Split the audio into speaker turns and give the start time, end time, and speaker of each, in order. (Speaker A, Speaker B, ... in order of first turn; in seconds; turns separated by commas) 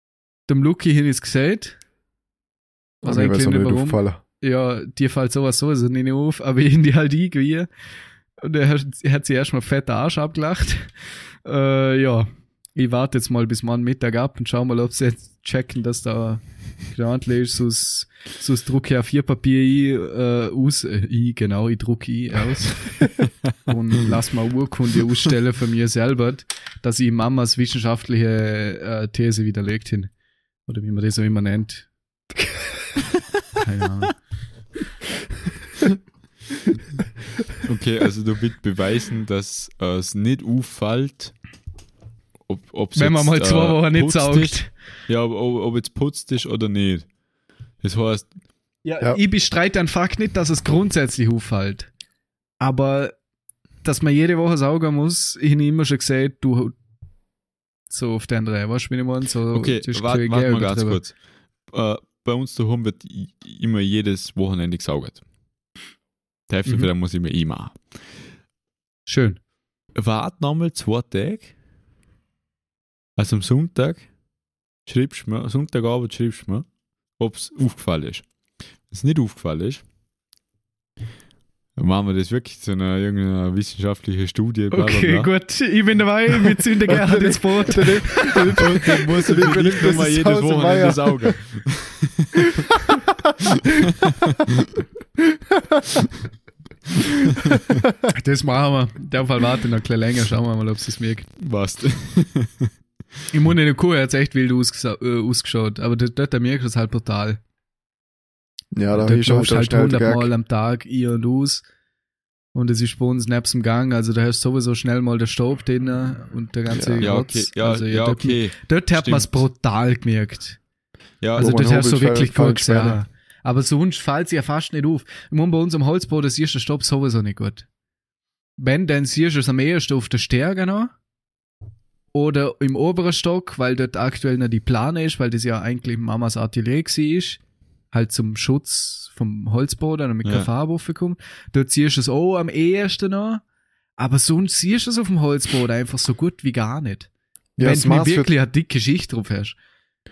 Speaker A: 0.5-1.8, Speaker B: 3.0-4.2, Speaker A: 3.0-7.7, Speaker A: 8.4-23.1, Speaker A: 23.6-30.1, Speaker A: 30.7-31.9, Speaker A: 33.6-34.1, Speaker C: 37.6-41.3, Speaker C: 42.5-47.1, Speaker A: 43.0-44.7, Speaker C: 47.8-48.3, Speaker A: 48.9-51.9, Speaker A: 52.6-53.1, Speaker A: 53.8-56.7, Speaker A: 57.9-61.0, Speaker C: 59.5-61.1, Speaker C: 61.7-65.2, Speaker C: 66.5-68.1, Speaker A: 69.1-69.4, Speaker C: 70.0-71.5, Speaker C: 73.2-74.1, Speaker C: 74.9-76.7, Speaker C: 77.2-78.3, Speaker C: 78.9-79.8, Speaker C: 81.8-85.3, Speaker A: 84.7-89.4, Speaker B: 86.8-91.4, Speaker C: 88.6-92.5, Speaker C: 93.9-94.4, Speaker A: 98.1-101.3, Speaker C: 101.4-102.7, Speaker A: 103.3-107.4, Speaker B: 108.7-110.3, Speaker A: 108.9-111.7, Speaker A: 112.5-120.6, Speaker B: 116.7-117.0, Speaker C: 117.0-119.4, Speaker C: 121.2-121.7, Speaker A: 121.4-127.7, Speaker B: 121.4-123.0, Speaker A: 128.6-130.9, Speaker A: 132.1-137.4, Speaker A: 137.9-143.4, Speaker A: 144.0-147.1, Speaker B: 147.6-148.3, Speaker A: 147.6-149.6